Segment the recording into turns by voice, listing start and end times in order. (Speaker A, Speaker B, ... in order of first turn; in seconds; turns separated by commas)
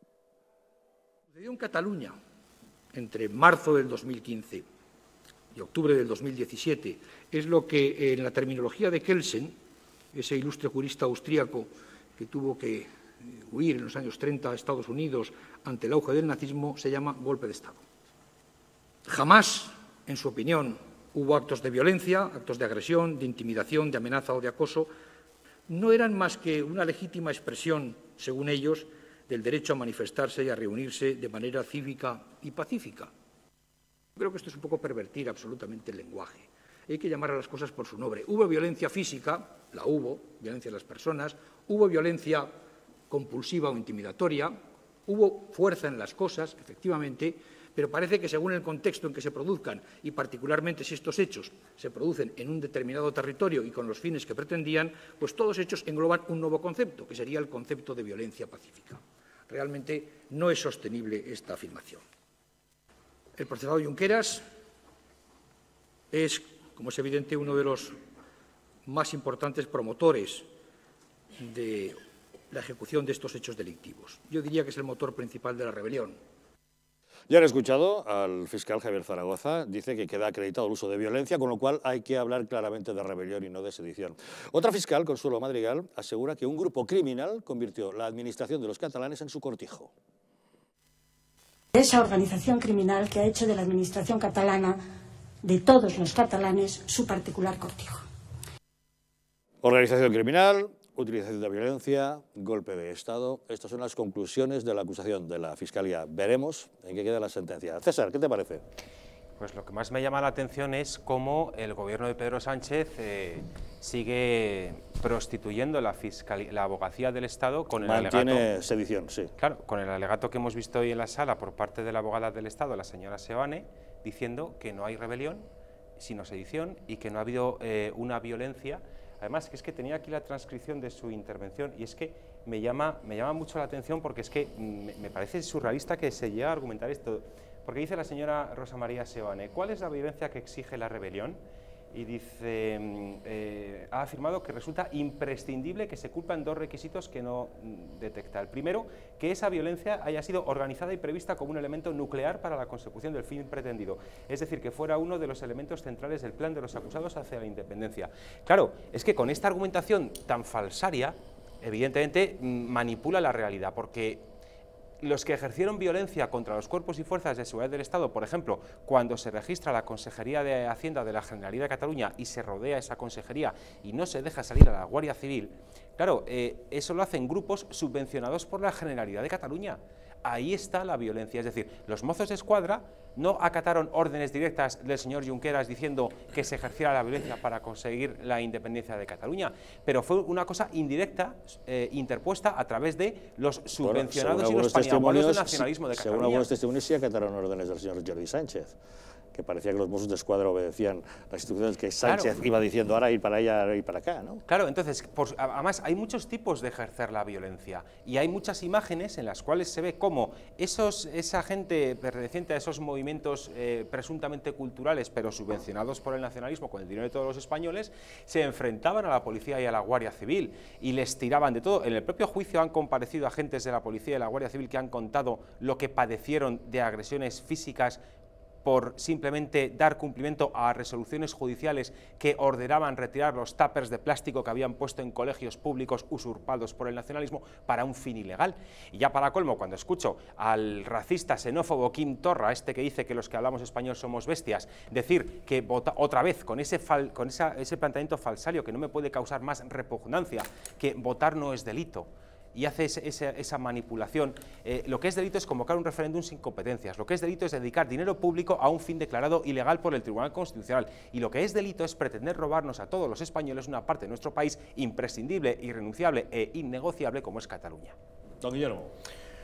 Speaker A: 1.3-2.2, Speaker A: 2.9-4.7, Speaker A: 5.5-9.6, Speaker A: 10.1-17.8, Speaker A: 19.1-24.9, Speaker A: 25.7-33.1, Speaker A: 34.1-42.5, Speaker A: 43.1-62.0, Speaker A: 63.4-64.4, Speaker A: 66.1-68.0, Speaker A: 68.8-70.5, Speaker A: 71.4-76.2, Speaker B: 77.3-89.9, Speaker C: 91.7-94.8, Speaker C: 95.4-98.0, Speaker B: 99.6-108.6, Speaker D: 109.4-118.5, Speaker B: 117.8-119.3, Speaker D: 119.4-125.5, Speaker D: 126.0-141.4, Speaker D: 141.9-164.2, Speaker D: 165.0-196.5, Speaker B: 193.8-198.8, Speaker B: 199.3-204.4, Speaker D: 202.0-202.3, Speaker D: 204.5-228.0, Speaker D: 228.6-267.9, Speaker B: 268.4-268.9